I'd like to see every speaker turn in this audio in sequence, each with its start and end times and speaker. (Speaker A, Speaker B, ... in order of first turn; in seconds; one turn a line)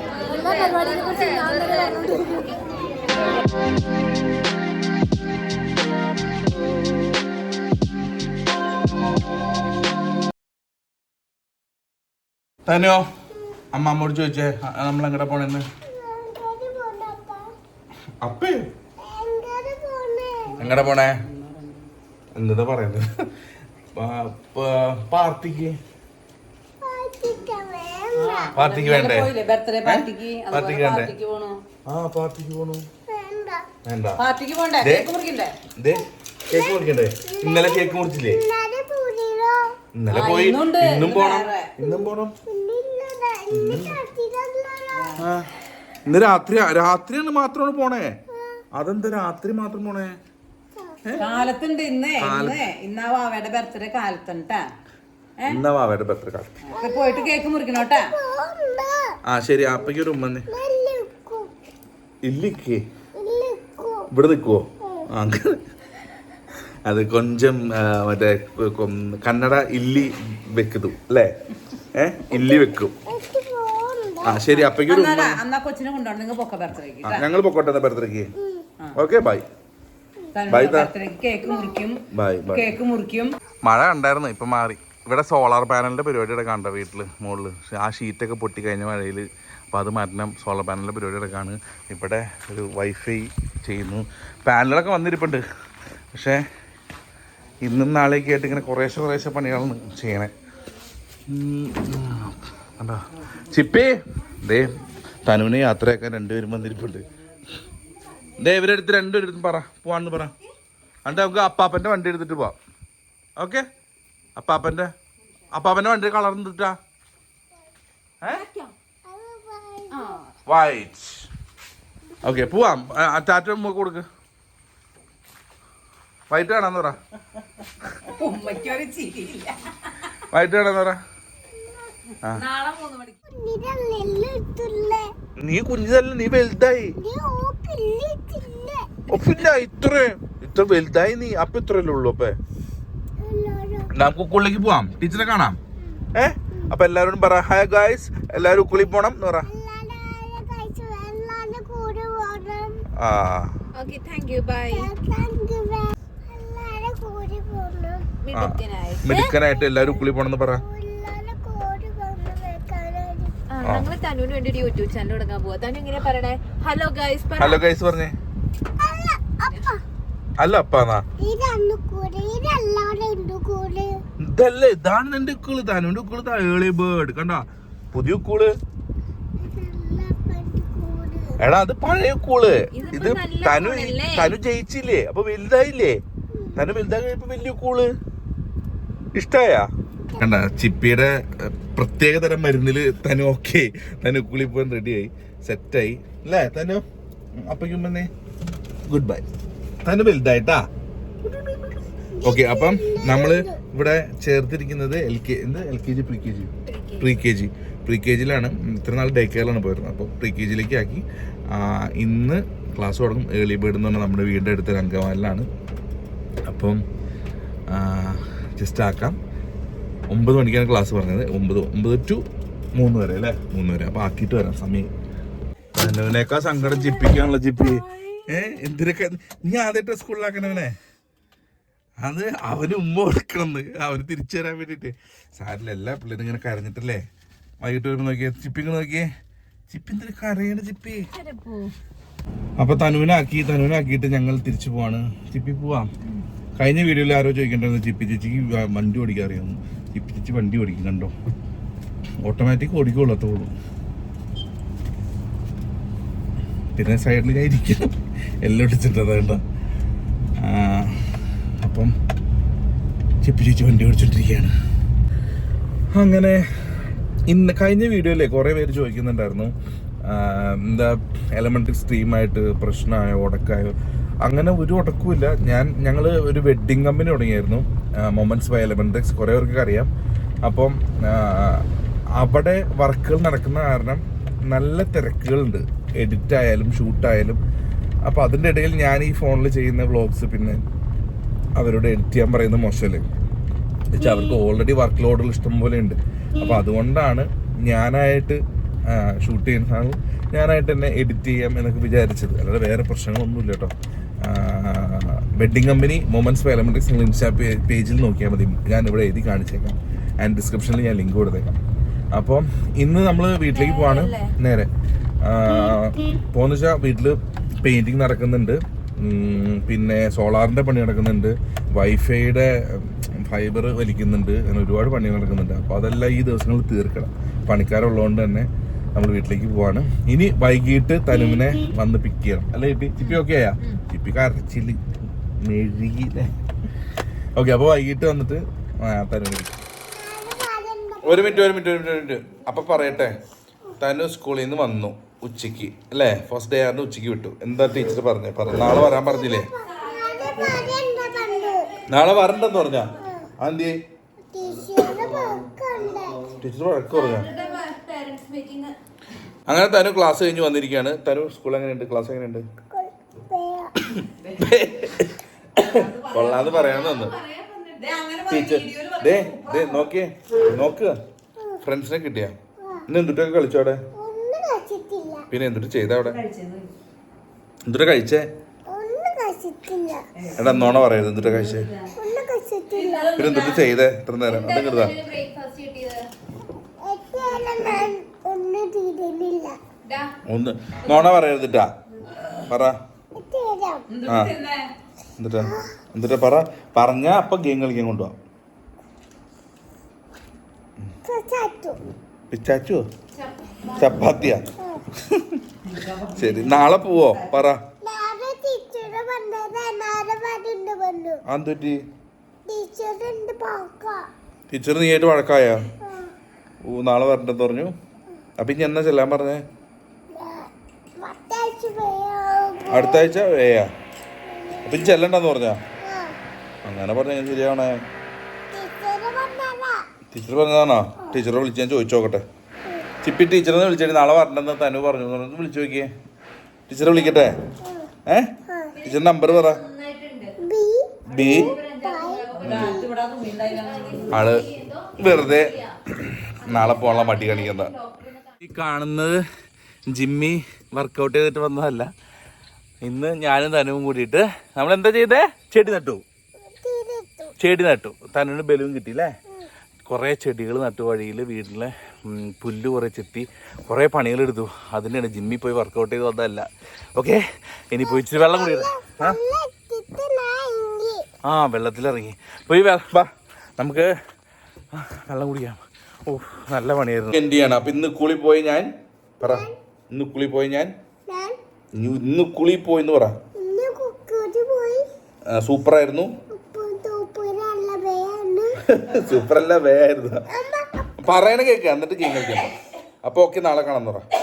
Speaker A: 0.1-2.5
Speaker B: 0.5-1.3
Speaker C: 0.6-1.1
Speaker C: 1.9-2.5
Speaker D: 12.7-13.1
Speaker D: 13.7-15.6
Speaker C: 15.9-17.5
Speaker D: 18.2-18.7
Speaker C: 19.0-20.5
Speaker B: 20.5-21.9
Speaker D: 20.6-21.2
Speaker D: 22.4-23.1
Speaker D: 23.9-25.8
Speaker C: 26.8-28.5
Speaker B: 28.2-31.6
Speaker D: 28.6-29.3
Speaker D: 29.8-31.1
Speaker D: 31.9-32.9
Speaker C: 33.1-33.6
Speaker D: 33.9-34.2
Speaker B: 34.2-35.5
Speaker D: 34.8-35.1
Speaker D: 35.8-38.4
Speaker C: 36.5-39.6
Speaker D: 39.9-42.4
Speaker B: 40.1-41.7
Speaker C: 42.5-45.1
Speaker D: 43.5-44.0
Speaker B: 44.9-45.2
Speaker D: 45.2-45.5
Speaker D: 46.1-48.2
Speaker D: 48.8-50.2
Speaker C: 50.8-51.5
Speaker B: 51.2-54.7
Speaker D: 52.2-52.6
Speaker D: 55.5-56.5
Speaker B: 56.7-58.1
Speaker C: 56.7-59.1
Speaker D: 59.2-60.5
Speaker C: 60.5-61.5
Speaker D: 62.2-62.8
Speaker C: 63.2-64.1
Speaker D: 64.1-65.6
Speaker D: 66.9-71.3
Speaker D: 71.9-72.9
Speaker C: 72.3-74.4
Speaker D: 74.2-75.4
Speaker B: 74.5-77.3
Speaker D: 77.0-78.3
Speaker C: 78.4-78.7
Speaker D: 79.0-79.5
Speaker B: 80.3-82.0
Speaker D: 80.5-80.9
Speaker C: 81.4-81.9
Speaker D: 82.1-82.7
Speaker B: 82.5-83.4
Speaker D: 83.6-95.4
Speaker D: 96.1-96.4
Speaker D: 97.6-100.3
Speaker D: 101.3-107.1
Speaker D: 108.4-110.3
Speaker D: 111.0-112.6
Speaker D: 113.4-113.7
Speaker D: 114.4-114.9
Speaker D: 115.5-116.8
Speaker A: 118.3-118.7
Speaker C: 119.0-120.2
Speaker D: 120.5-121.3
Speaker D: 122.2-124.1
Speaker D: 126.3-127.0
Speaker B: 128.0-130.2
Speaker D: 130.3-131.0
Speaker C: 131.6-131.9
Speaker B: 132.3-133.2
Speaker C: 133.3-135.1
Speaker D: 135.4-137.0
Speaker C: 137.0-139.3
Speaker D: 139.1-142.4
Speaker C: 143.2-143.9
Speaker D: 143.9-145.6
Speaker D: 146.2-149.5
Speaker C: 149.5-152.8
Speaker D: 153.0-153.5
Speaker A: 153.7-154.9
Speaker C: 154.7-158.1
Speaker A: 158.2-159.3
Speaker D: 158.3-160.6
Speaker C: 159.5-160.0
Speaker C: 160.5-163.3
Speaker A: 163.5-167.6
Speaker D: 167.4-168.1
Speaker C: 168.8-169.8
Speaker D: 170.4-171.1
Speaker C: 171.2-174.0
Speaker D: 174.2-178.5
Speaker C: 179.4-181.3
Speaker D: 181.4-186.0
Speaker A: 182.7-184.3
Speaker D: 186.6-187.9
Speaker D: 189.1-196.8
Speaker D: 197.4-198.1
Speaker D: 198.9-199.2
Speaker D: 199.8-200.7
Speaker C: 201.2-203.6
Speaker D: 202.2-215.5
Speaker A: 206.6-207.2
Speaker D: 216.5-216.8
Speaker D: 217.7-219.2
Speaker D: 220.1-222.2
Speaker D: 222.8-224.9
Speaker D: 225.8-230.8
Speaker D: 232.0-237.0
Speaker D: 237.6-239.1
Speaker D: 239.7-241.1
Speaker A: 241.1-241.7
Speaker D: 242.6-245.9
Speaker D: 246.6-251.1
Speaker D: 252.2-253.5
Speaker D: 256.8-259.4
Speaker D: 260.4-261.0
Speaker D: 261.6-261.9
Speaker D: 263.2-264.5
Speaker D: 265.9-266.5
Speaker D: 267.3-269.5
Speaker D: 270.1-279.9
Speaker D: 280.4-281.6
Speaker D: 282.2-287.4
Speaker D: 288.0-290.6
Speaker D: 291.6-293.1
Speaker D: 293.9-311.6
Speaker D: 312.1-314.7
Speaker A: 313.5-314.4
Speaker D: 315.2-334.8
Speaker A: 333.0-333.8
Speaker D: 335.4-336.3
Speaker D: 337.4-339.6
Speaker C: 339.9-341.5
Speaker D: 341.0-343.2
Speaker D: 343.8-349.5
Speaker C: 348.7-351.8
Speaker A: 349.8-352.9
Speaker D: 351.9-353.8
Speaker C: 353.0-353.3
Speaker C: 354.3-356.3
Speaker D: 356.4-357.3
Speaker A: 356.9-358.8
Speaker C: 357.3-357.6
Speaker D: 359.5-362.5
Speaker C: 362.7-363.7
Speaker D: 363.9-367.2
Speaker B: 364.2-364.6
Speaker B: 365.6-366.0
Speaker A: 366.0-367.9
Speaker B: 367.8-369.9
Speaker D: 368.3-370.9
Speaker D: 371.6-372.4
Speaker D: 372.9-373.8
Speaker C: 373.9-375.3
Speaker D: 375.3-376.2
Speaker B: 376.0-376.7
Speaker D: 377.6-378.2
Speaker C: 378.7-380.0
Speaker B: 380.2-381.9
Speaker D: 380.4-381.7
Speaker C: 382.0-383.1
Speaker A: 382.8-386.1
Speaker D: 383.1-385.0
Speaker C: 386.8-389.6
Speaker A: 389.9-390.1
Speaker D: 390.3-391.7
Speaker D: 392.5-392.8
Speaker C: 393.1-393.9
Speaker B: 393.9-394.7
Speaker D: 394.1-394.3
Speaker D: 395.2-398.1
Speaker C: 401.1-401.8
Speaker D: 402.3-402.8
Speaker A: 403.1-404.0
Speaker D: 403.7-404.4
Speaker D: 405.1-405.4
Speaker B: 405.6-407.4
Speaker D: 406.1-407.6
Speaker C: 407.8-411.2
Speaker D: 411.3-411.8
Speaker C: 412.5-414.0
Speaker D: 414.5-415.7
Speaker C: 415.8-416.1
Speaker D: 416.6-417.7
Speaker D: 418.4-419.4
Speaker C: 420.1-420.5
Speaker C: 421.0-423.2
Speaker D: 422.7-423.7
Speaker C: 424.3-424.9
Speaker D: 424.6-425.6
Speaker C: 425.8-426.1
Speaker D: 426.6-427.8
Speaker C: 428.5-429.8
Speaker D: 430.1-432.2
Speaker D: 433.0-435.9
Speaker D: 436.7-437.3
Speaker C: 438.5-438.7
Speaker A: 438.8-440.4
Speaker D: 438.8-439.6
Speaker C: 440.4-442.9
Speaker D: 441.1-441.6
Speaker A: 441.1-442.8
Speaker B: 442.4-444.2
Speaker A: 443.4-445.7
Speaker D: 444.1-447.7
Speaker A: 446.4-448.3
Speaker D: 448.4-449.2
Speaker D: 449.9-451.9
Speaker D: 452.8-456.0
Speaker C: 456.4-457.4
Speaker D: 457.4-459.1
Speaker D: 459.9-469.2
Speaker C: 467.8-471.1
Speaker D: 471.2-473.9
Speaker D: 474.7-478.7
Speaker C: 479.2-479.5
Speaker D: 479.2-480.7
Speaker C: 481.1-481.4
Speaker D: 481.8-483.2
Speaker C: 483.4-484.9
Speaker D: 485.3-486.1
Speaker C: 486.3-488.6
Speaker D: 488.6-490.2
Speaker C: 490.3-490.9
Speaker D: 491.0-494.1